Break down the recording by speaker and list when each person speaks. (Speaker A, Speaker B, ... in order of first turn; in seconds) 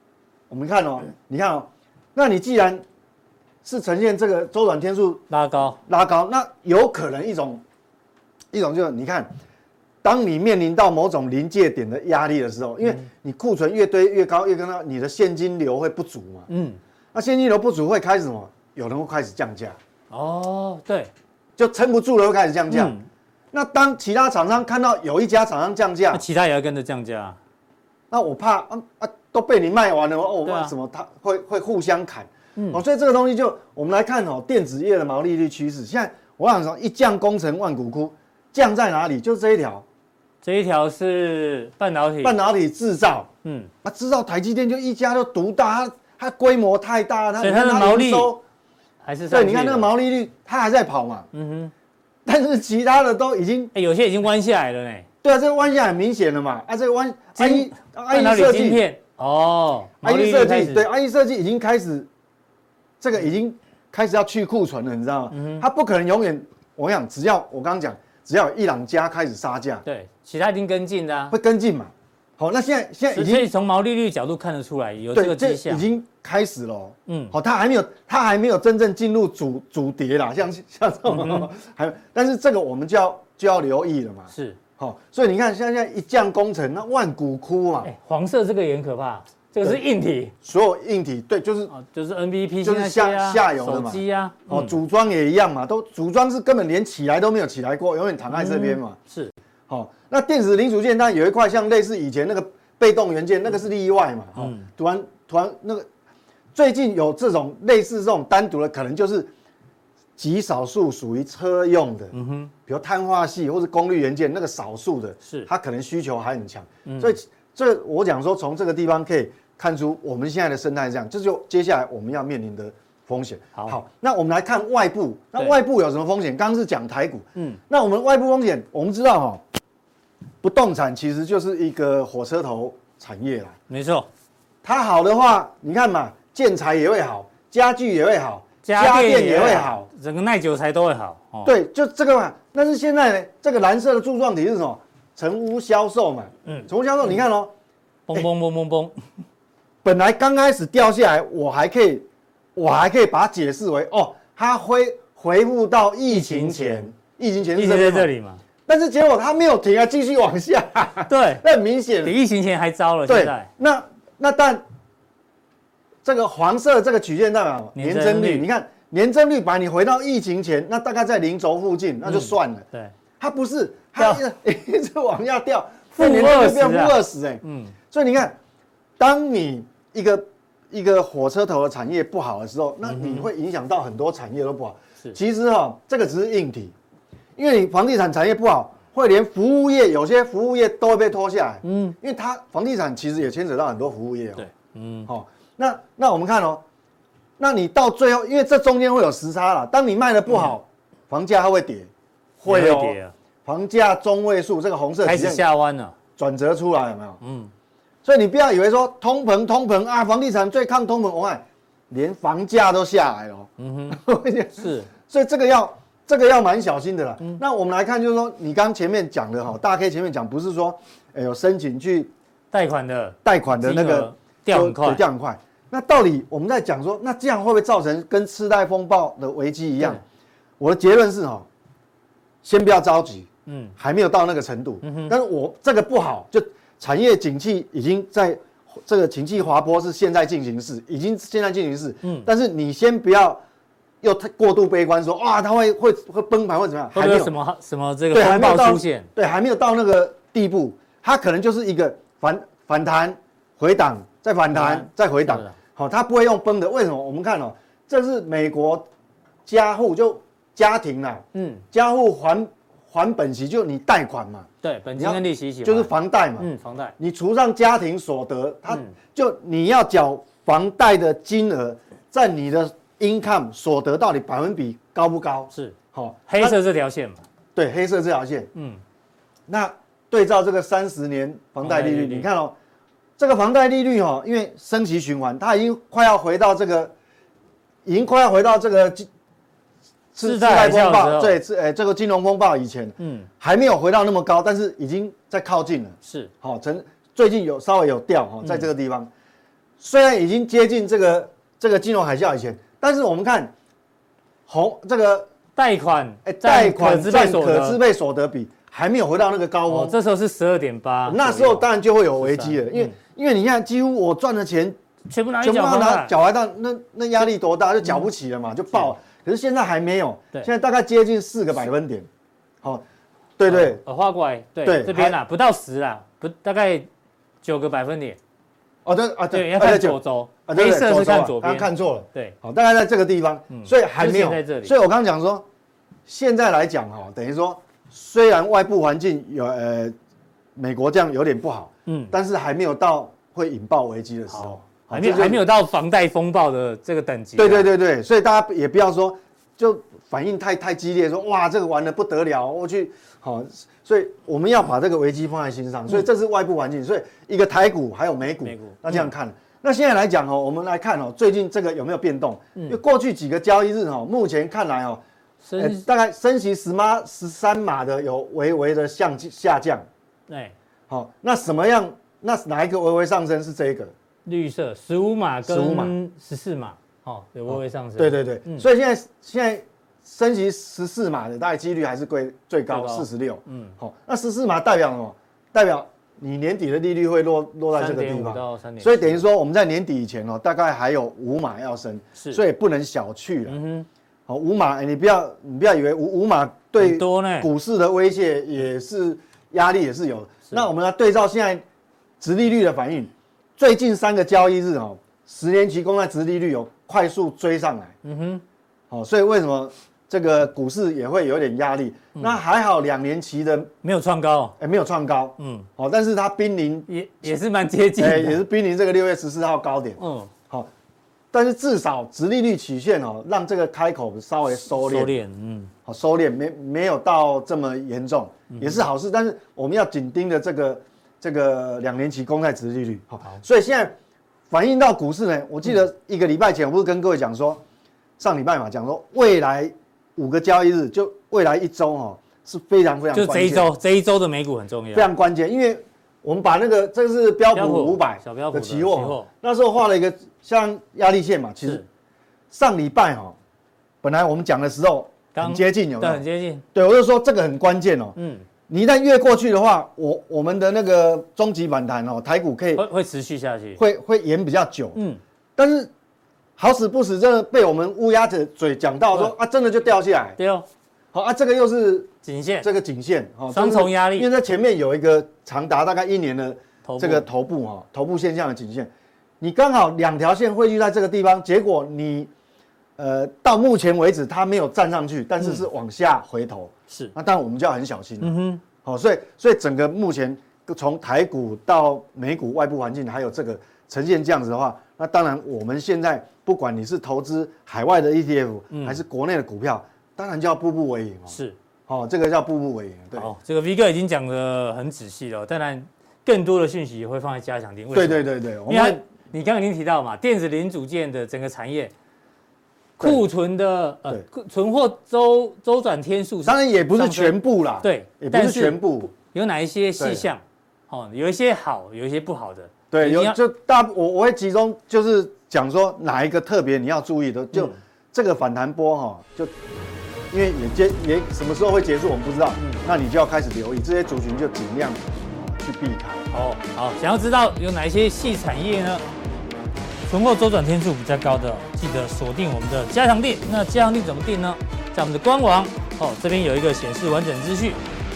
Speaker A: 0.5-2.8, 3.6-5.2, 5.9-7.6, 8.5-9.3, 10.0-16.5, 17.1-19.8, 21.6-23.0, 23.5-26.2, 28.1-39.9, 42.2-43.3, 43.8-48.4, 49.3-51.3, 52.3-53.7, 55.2-58.8, 60.0-62.1, 63.0-69.8, 71.3-73.5, 75.1-87.9, 90.4-91.7, 92.6-99.0, 99.7-105.9, 106.5-109.3, 110.2-112.1, 112.7-129.4, 130.4-133.6, 134.6-139.9, 141.4-147.5, 149.8-158.1, 158.7-162.1, 163.1-164.6, 166.0-172.7, 173.2-178.4, 179.0-186.7, 187.4-194.5, 195.1-196.6, 197.4-205.4, 206.2-207.2, 208.1-222.1, 223.2-230.0, 230.6-231.5, 232.4-243.4, 244.0-247.3, 248.1-258.9, 259.4-276.6, 277.6-278.5, 279.5-282.6, 283.2-286.9, 287.9-289.1, 290.1-299.1, 299.8-303.5, 304.5-305.3, 306.2-309.9, 311.1-314.8, 315.4-322.1, 323.4-323.8, 324.6-325.2, 328.9-335.5, 336.1-339.9, 340.6-345.5, 347.4-365.0, 365.6-369.9, 370.9-373.9, 375.4-375.9, 377.5-393.6, 394.3-401.6, 402.2-407.9, 408.9-413.7, 414.6-416.9, 418.0-420.7, 421.3-425.1, 425.9-434.0, 434.5-437.6, 438.2-443.7, 444.9-451.9, 452.5-453.4, 454.0-456.2, 456.8-458.1, 458.7-462.9, 463.8-465.0, 465.6-465.9, 466.6-470.4, 471.1-472.1, 472.6-478.9, 479.4-482.3, 483.0-503.3, 507.9-509.0, 516.4-519.1, 520.0-520.2, 522.9-529.5, 530.3-536.3
Speaker B: 5.3-5.8, 16.5-16.8, 20.1-21.1, 22.7-23.1, 26.1-27.4, 30.4-30.7, 32.6-32.8, 40.4-42.4, 43.4-43.7, 47.4-48.3, 49.0-49.9, 51.3-51.7, 53.7-55.1, 57.4-60.9, 65.3-65.6, 69.8-71.4, 73.1-75.8, 77.1-77.3, 81.1-81.5, 84.3-84.6, 87.8-90.3, 91.7-94.8, 98.3-99.3, 104.4-104.7, 112.1-112.5, 116.9-117.2, 133.7-134.1, 138.6-141.5, 148.1-149.0, 156.1-156.9, 157.6-158.4, 161.1-161.4, 162.0-163.5, 167.8-168.5, 172.1-172.9, 176.0-177.8, 182.8-183.3, 191.6-192.0, 194.4-195.1, 202.5-203.1, 205.0-205.9, 207.2-207.5, 213.6-214.0, 214.6-214.9, 222.5-225.0, 233.5-233.7, 234.8-235.1, 242.0-242.3, 246.9-249.1, 254.5-255.6, 261.3-261.6, 264.6-266.9, 276.3-277.2, 278.6-278.8, 281.6-282.3, 290.2-291.4, 293.0-293.3, 296.1-296.3, 305.6-307.8, 309.7-311.7, 312.2-312.9, 315.1-316.1, 323.5-326.9, 327.4-328.2, 329.3-332.4, 333.5-334.8, 341.9-342.1, 344.3-347.7, 358.5-359.0, 365.4-365.9, 370.3-370.5, 374.3-378.7, 382.7-383.8, 387.7-389.2, 393.5-393.9, 396.8-397.5, 408.0-408.4, 413.8-414.6, 415.4-415.7, 416.9-418.4, 420.0-420.3, 424.8-425.7, 428.5-428.8, 443.1-445.1, 447.5-449.3, 455.3-456.6, 458.2-458.4, 462.8-463.8, 470.4-470.6, 472.2-472.7, 473.5-474.3, 476.9-477.2, 488.2-488.6, 498.7-499.0, 501.3-501.6, 503.1-511.9, 513.0-523.4, 536.3-539.0, 540.1-547.8